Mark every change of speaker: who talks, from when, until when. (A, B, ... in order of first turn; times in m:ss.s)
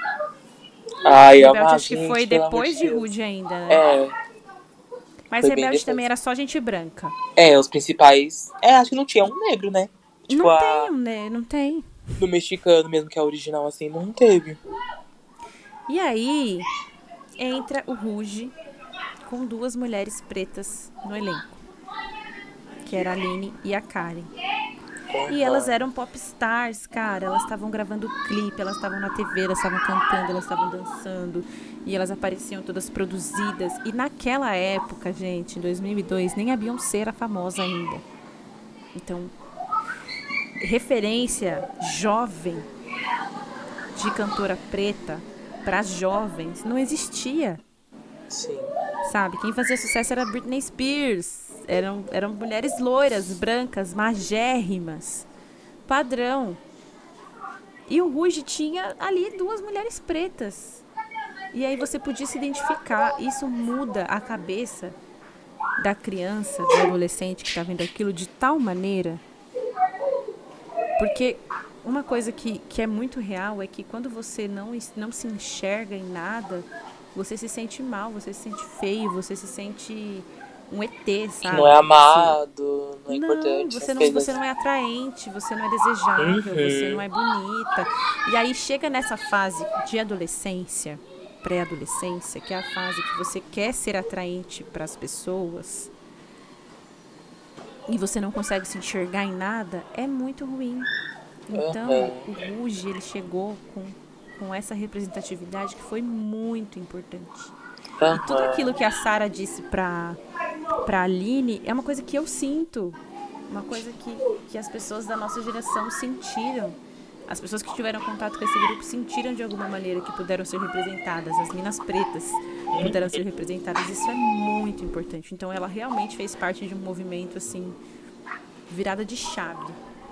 0:01.0-0:03.1 A
0:01.1-0:03.8 B
0:03.7-0:04.2 A
0:05.3-0:07.2 B
0:05.4-0:06.0 A
0:07.4-0:10.9 A
0:10.3-0:11.9 B
0:12.2-0:14.6 A
0:15.9-0:16.7 B
0:17.4-0:18.5 B
0:19.2-0:21.6 B
0:22.8-0:24.3 B
0:25.1-0:25.8 A
0:25.3-0:38.0 B
0:39.0-0:39.3 B
0:40.6-0:42.7 B
0:44.0-0:47.6 B
0:48.3-0:48.7 A
0:49.0-0:55.3 B
0:55.9-0:56.6 B
0:57.9-1:00.8 B
1:01.5-1:05.0 B
1:05.8-1:09.2 B
1:11.0-1:22.4 B
1:21.4-1:24.4 A
1:23.1-1:35.9 B
1:26.2-1:27.0 A
1:37.9-1:40.9 B
1:41.5-1:47.6 B
1:41.5-1:42.3 A
1:48.0-1:48.7 A
1:48.1-1:50.2 B
1:50.8-2:07.8 B
2:02.7-2:03.2 A
2:08.7-2:09.8 B